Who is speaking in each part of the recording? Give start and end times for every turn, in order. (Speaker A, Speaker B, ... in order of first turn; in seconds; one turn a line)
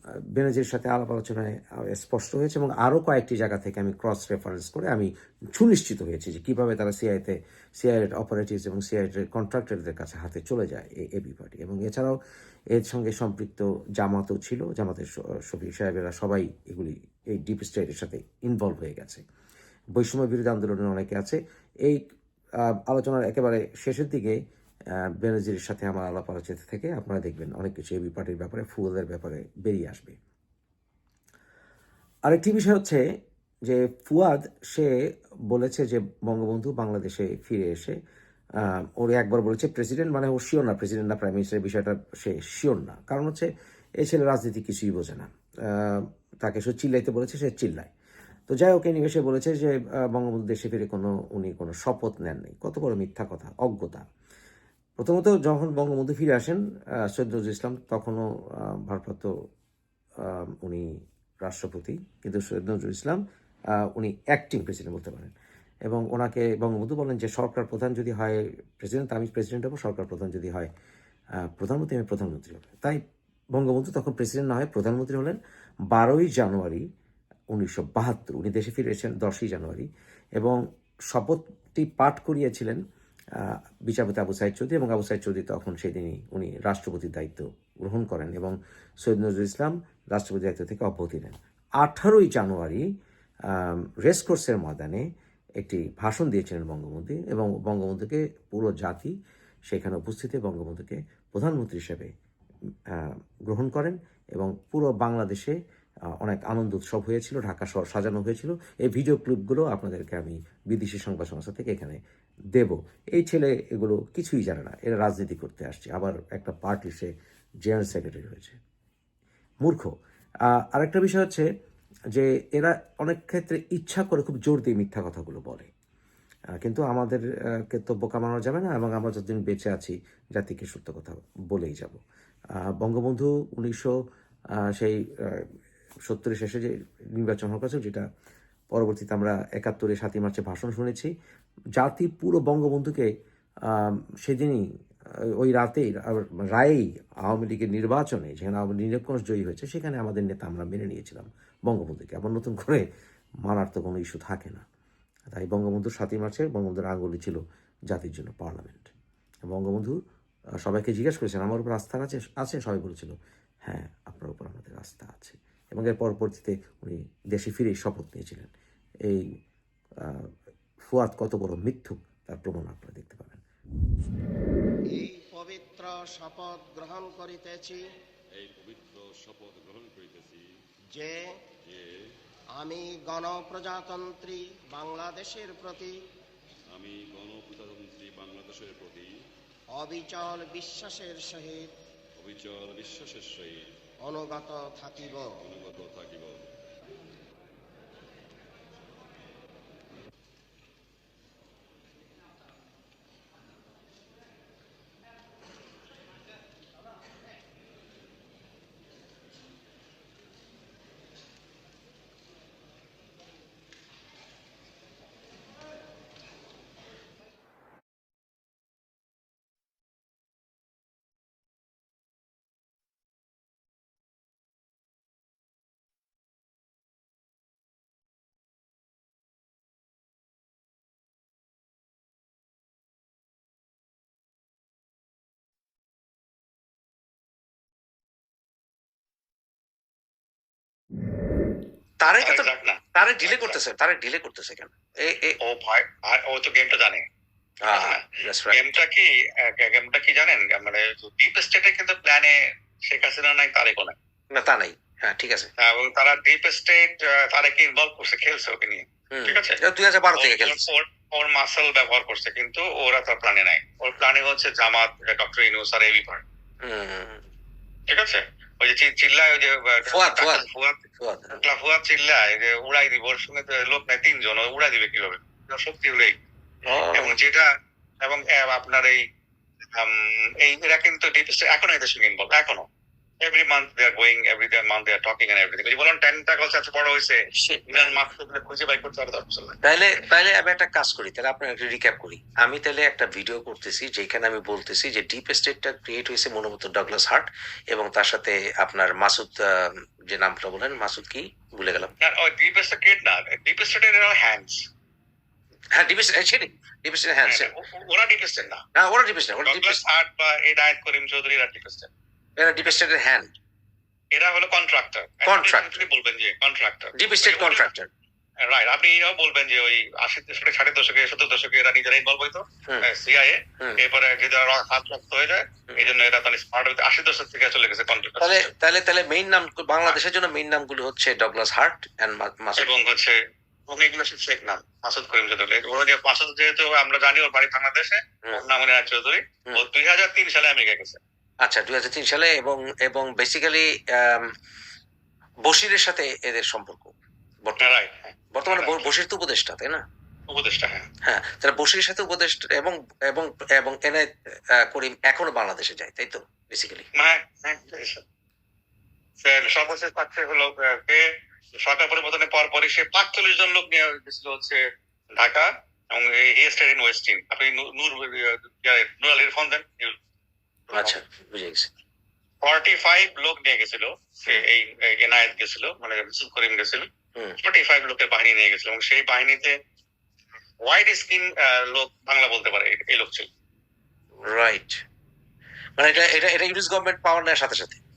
Speaker A: 0.3-12.2
Speaker A: 12.7-19.2
Speaker A: 19.9-22.0
Speaker A: 22.7-24.4
Speaker A: 25.2-30.1
Speaker A: 32.3-33.0
Speaker A: 33.6-34.9
Speaker A: 35.5-38.0
Speaker A: 38.6-43.5
Speaker A: 44.0-47.9
Speaker A: 48.5-54.0
Speaker A: 55.0-56.6
Speaker A: 57.1-59.3
Speaker A: 60.2-60.9
Speaker A: 61.4-63.2
Speaker A: 63.9-65.3
Speaker A: 65.9-70.7
Speaker A: 71.5-73.0
Speaker A: 73.5-75.4
Speaker A: 75.9-76.8
Speaker A: 77.5-80.6
Speaker A: 81.1-82.8
Speaker A: 83.4-92.8
Speaker A: 93.5-95.0
Speaker A: 95.6-99.1
Speaker A: 99.7-102.1
Speaker A: 102.9-105.5
Speaker A: 106.2-112.0
Speaker A: 112.5-117.1
Speaker A: 117.6-118.6
Speaker A: 119.6-119.9
Speaker A: 120.5-121.5
Speaker A: 122.1-125.7
Speaker A: 126.6-132.0
Speaker A: 132.6-133.9
Speaker A: 134.7-135.5
Speaker A: 136.1-138.0
Speaker A: 138.7-141.1
Speaker A: 141.8-143.1
Speaker A: 143.7-144.6
Speaker A: 145.3-152.8
Speaker A: 153.4-154.6
Speaker A: 155.3-157.4
Speaker A: 157.9-158.9
Speaker A: 159.5-160.0
Speaker A: 160.6-163.1
Speaker A: 163.6-168.5
Speaker A: 170.0-170.3
Speaker A: 170.8-173.4
Speaker B: 174.9-177.8
Speaker C: 178.3-180.5
Speaker B: 180.9-181.4
Speaker C: 181.7-182.0
Speaker B: 182.5-185.9
Speaker C: 186.7-189.2
Speaker B: 189.7-191.7
Speaker C: 192.2-193.7
Speaker B: 194.0-195.3
Speaker C: 195.4-196.4
Speaker D: 242.0-245.3
Speaker E: 242.2-243.6
Speaker E: 245.4-247.0
Speaker D: 247.6-248.7
Speaker E: 247.7-252.3
Speaker E: 252.9-253.9
Speaker D: 254.3-255.5
Speaker E: 255.6-259.6
Speaker D: 259.1-260.6
Speaker E: 260.1-266.2
Speaker D: 266.6-267.2
Speaker E: 267.9-270.8
Speaker D: 269.9-270.4
Speaker D: 271.0-271.4
Speaker E: 271.3-276.1
Speaker D: 276.7-277.2
Speaker E: 276.9-277.4
Speaker E: 278.0-279.0
Speaker E: 279.7-282.6
Speaker E: 283.2-289.6
Speaker D: 287.5-288.0
Speaker D: 289.6-299.4
Speaker D: 300.1-301.9
Speaker E: 302.0-304.6
Speaker D: 305.7-307.5
Speaker E: 307.2-308.6
Speaker D: 308.7-309.8
Speaker E: 309.4-311.9
Speaker D: 312.4-313.3
Speaker E: 314.1-317.7
Speaker D: 315.2-315.9
Speaker D: 316.9-317.9
Speaker E: 318.5-328.5
Speaker D: 328.2-332.7
Speaker E: 332.6-333.1
Speaker E: 333.7-341.0
Speaker D: 341.4-344.2
Speaker D: 345.4-346.9
Speaker D: 347.4-347.7
Speaker E: 347.6-348.9
Speaker D: 348.3-349.8
Speaker E: 350.3-350.9
Speaker D: 351.0-354.1
Speaker D: 354.6-356.9
Speaker E: 357.0-358.0
Speaker E: 359.2-361.0
Speaker E: 361.6-364.6
Speaker E: 365.1-370.0
Speaker E: 370.7-371.0
Speaker D: 370.7-371.7
Speaker E: 372.4-376.9
Speaker E: 377.4-379.5
Speaker E: 380.6-383.3
Speaker D: 384.3-384.8
Speaker D: 385.8-387.8